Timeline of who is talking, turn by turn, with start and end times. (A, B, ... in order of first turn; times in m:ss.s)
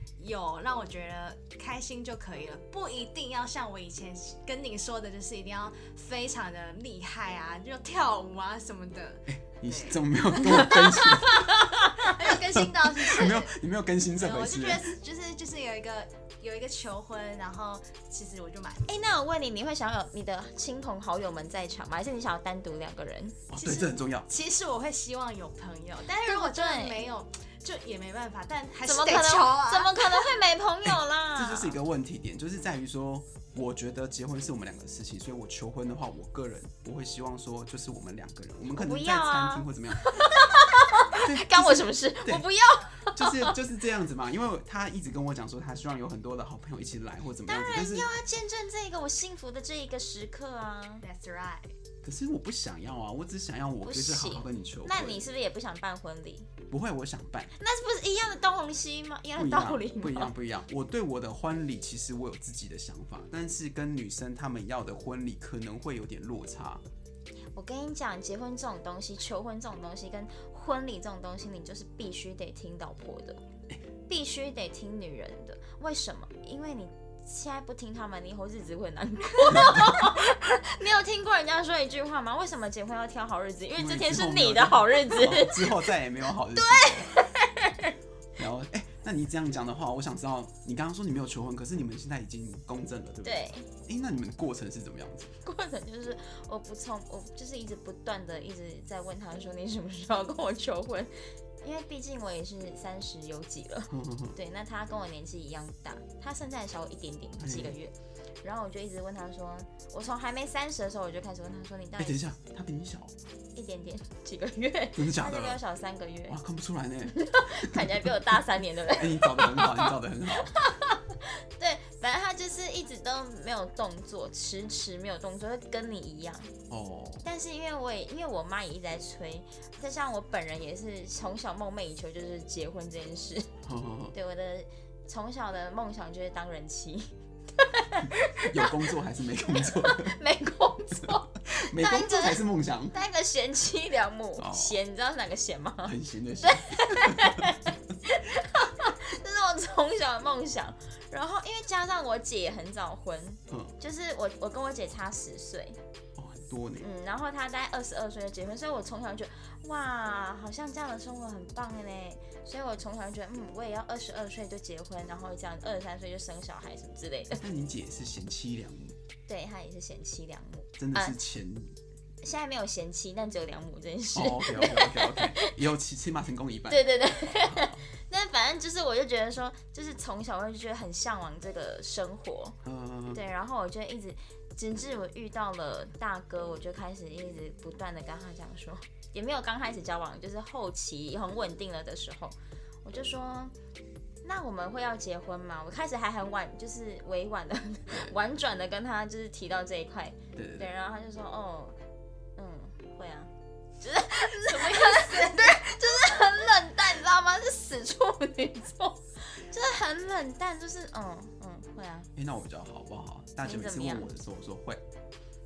0:00.2-0:10.9 A
0:09.3-0:15.0 B
0:10.3-0:12.0 C
0:12.0-0:13.6 A
0:14.2-0:18.9 A
0:18.9-0:23.4 C
0:23.5-0:24.3 B
0:23.6-0:30.4 A
0:26.3-0:27.0 C
0:28.8-0:31.8 C
0:31.4-0:40.4 B
0:38.7-0:43.6 C
0:41.1-0:42.5 B
0:43.0-0:48.1 B
0:47.5-0:51.0 C
0:51.0-0:51.7 A
0:52.0-0:55.3 B
0:53.8-0:56.5 C
0:56.7-0:57.5 B
0:57.6-1:00.3 C
0:59.4-1:06.8 B
1:07.6-1:13.4 C
1:14.1-1:25.9 C
1:19.5-1:19.9 B
1:23.8-1:27.2 B
1:26.6-1:27.9 C
1:28.4-1:35.3 B
1:33.2-1:33.7 C
1:35.4-1:52.2 C
1:43.9-1:44.4 B
1:47.4-1:47.8 B
1:52.0-1:53.2 B
1:53.6-1:56.4 C
1:55.0-1:55.6 B
1:56.3-1:58.2 B
1:57.1-2:06.5 C
1:58.9-2:00.6 B
2:06.7-2:07.2 B
2:07.2-2:13.5 C
2:13.6-2:14.1 B
2:14.1-2:18.8 C
2:18.0-2:20.2 B
2:19.4-2:35.8 C
2:21.0-2:23.0 B
2:24.4-2:24.8 B
2:25.8-2:27.6 B
2:33.5-2:33.8 B
2:36.2-2:36.9 B
2:36.8-2:47.4 C
2:47.4-2:49.0 B
2:49.3-2:51.2 C
2:50.8-2:51.8 B
2:52.2-2:55.5 C
2:54.2-2:57.8 B
2:56.7-3:02.6 C
3:02.6-3:03.2 B
3:03.1-3:13.5 C
3:14.2-3:21.8 C
3:20.4-3:20.7 B
3:22.4-3:32.1 C
3:24.7-3:25.5 A
3:32.2-3:34.8 B
3:33.4-3:34.1 C